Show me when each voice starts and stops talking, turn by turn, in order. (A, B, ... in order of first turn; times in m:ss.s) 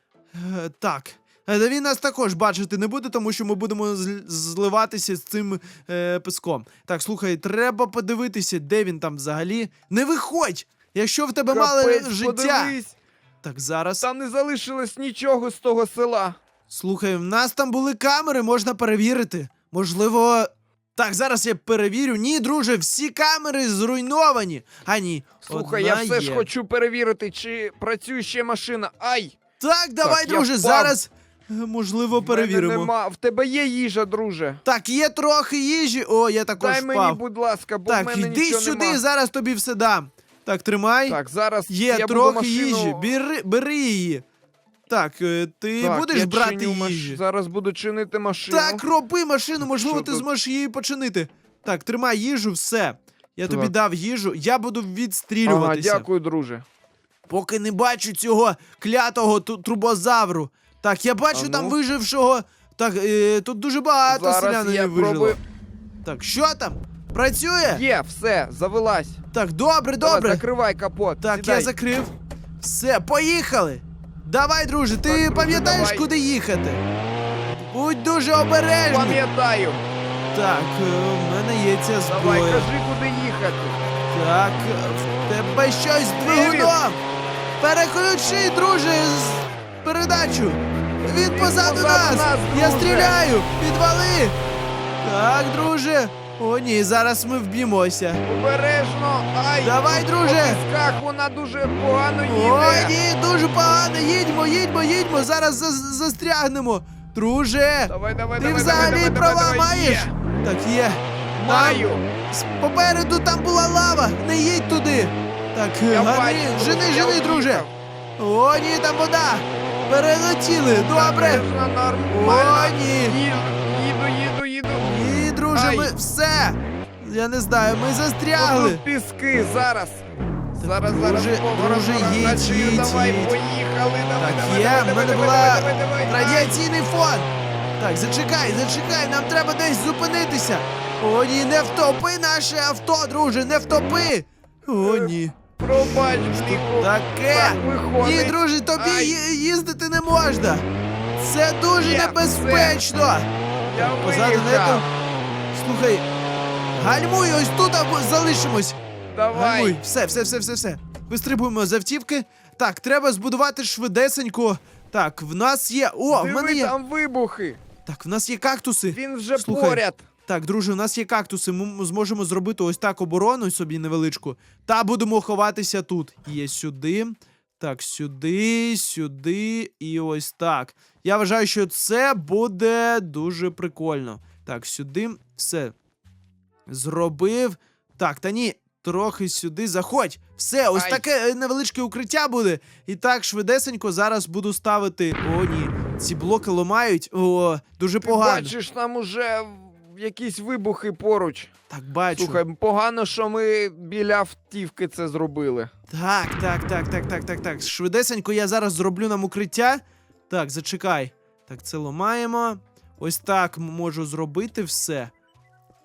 0:00.3-0:12.8 A
0:11.5-0:13.0 B
0:13.4-0:14.0 A
0:14.0-0:16.4 B
0:16.7-0:26.5 A
0:25.4-0:29.4 B
0:29.6-0:32.9 A
0:30.0-0:31.0 B
0:32.2-0:34.6 B
0:34.6-0:37.2 A
0:36.6-0:39.0 B
0:37.9-0:44.2 A
0:41.1-0:43.1 B
0:44.9-0:47.2 A
0:45.8-0:48.8 B
0:48.5-0:56.1 A
0:49.6-0:50.2 B
0:53.4-0:53.7 B
0:55.4-0:56.6 B
0:57.3-1:05.4 A
1:01.3-1:01.8 B
1:04.1-1:05.4 B
1:06.0-1:07.8 A
1:07.7-1:09.2 B
1:09.3-1:10.4 A
1:10.0-1:11.7 B
1:11.2-1:16.8 A
1:15.0-1:16.1 B
1:17.5-1:19.2 A
1:18.9-1:19.8 B
1:20.3-1:22.7 A
1:22.1-1:23.8 B
1:24.1-1:27.0 A
1:26.2-1:26.7 B
1:27.6-1:34.4 A
1:31.1-1:33.2 B
1:35.0-1:38.2 A
1:38.2-1:42.9 B
1:39.6-1:40.6 A
1:42.3-1:57.6 A
1:47.9-1:50.1 B
1:51.4-1:52.1 B
1:55.9-1:57.7 B
1:58.2-2:01.4 A
2:00.9-2:04.9 B
2:02.1-2:03.2 A
2:04.8-2:08.8 A
2:05.5-2:05.9 B
2:08.4-2:10.0 B
2:10.6-2:16.6 B
2:10.6-2:13.3 A
2:14.2-2:30.6 A
2:24.7-2:29.2 B
2:31.2-2:34.8 A
2:31.8-2:32.8 B
2:33.7-2:34.9 B
2:35.5-2:36.0 A
2:36.8-2:38.8 A
2:39.1-2:39.8 B
2:39.3-2:46.7 A
2:46.1-2:47.6 B
2:47.9-3:05.7 A
2:48.9-2:50.0 B
3:06.7-3:18.5 A
3:10.7-3:11.0 B
3:18.0-3:21.5 B
3:21.7-3:22.4 A
3:22.1-3:25.7 B
3:25.9-3:35.1 A